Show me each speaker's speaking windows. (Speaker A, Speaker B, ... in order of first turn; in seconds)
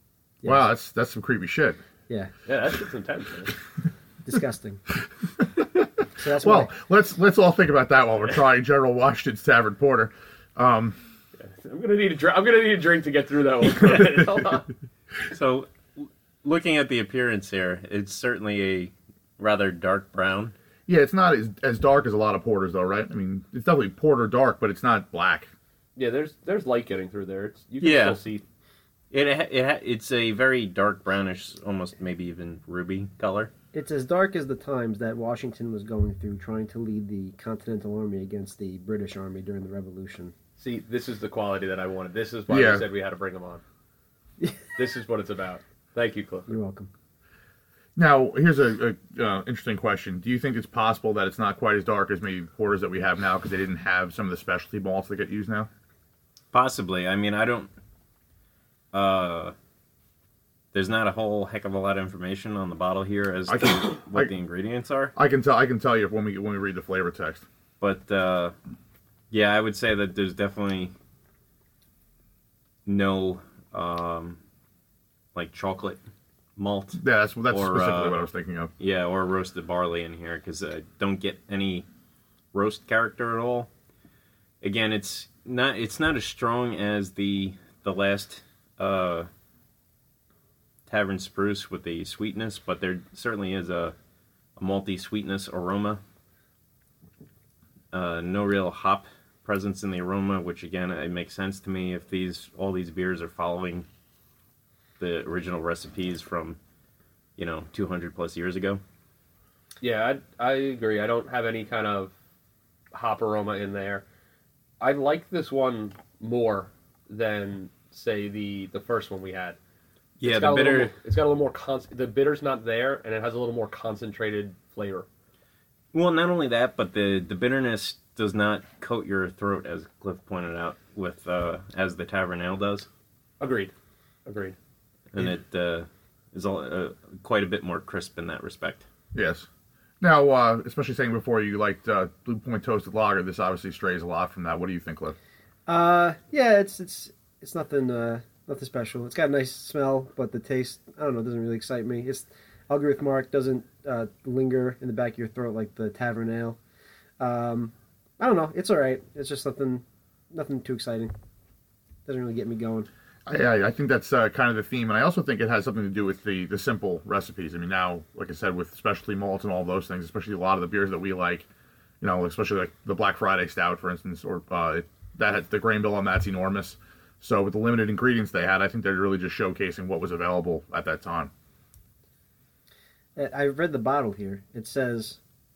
Speaker A: 0.4-0.7, 4.2-4.8, 6.2-6.7, 33.7-40.3, 46.5-46.9, 145.7-156.6, 157.2-161.1, 162.1-162.9, 183.2-185.2
Speaker B: 0.5-1.8, 6.4-11.0, 20.9-25.5, 42.5-42.9, 48.0-55.7, 63.5-64.3, 65.2-67.5, 77.0-78.7, 139.1-139.5, 140.0-145.2, 163.3-171.5, 172.0-181.3
Speaker C: 2.5-3.5, 11.4-14.7, 26.0-28.4, 40.6-43.6, 44.7-46.5, 109.8-112.1, 112.9-114.0, 114.8-119.6, 120.2-125.1, 133.4-133.7, 134.3-134.6
Speaker D: 15.3-20.5, 27.8-28.2, 29.1-33.5, 56.5-57.7, 58.9-59.5, 60.7-65.1, 67.8-68.5, 69.3-70.9, 72.9-74.4, 75.3-76.0, 76.6-78.2, 78.8-81.9, 82.5-83.7, 84.6-89.3, 90.9-94.0, 94.6-96.0, 97.9-103.9, 105.0-106.6, 107.4-108.8, 120.2-120.9, 125.9-132.9, 135.1-138.8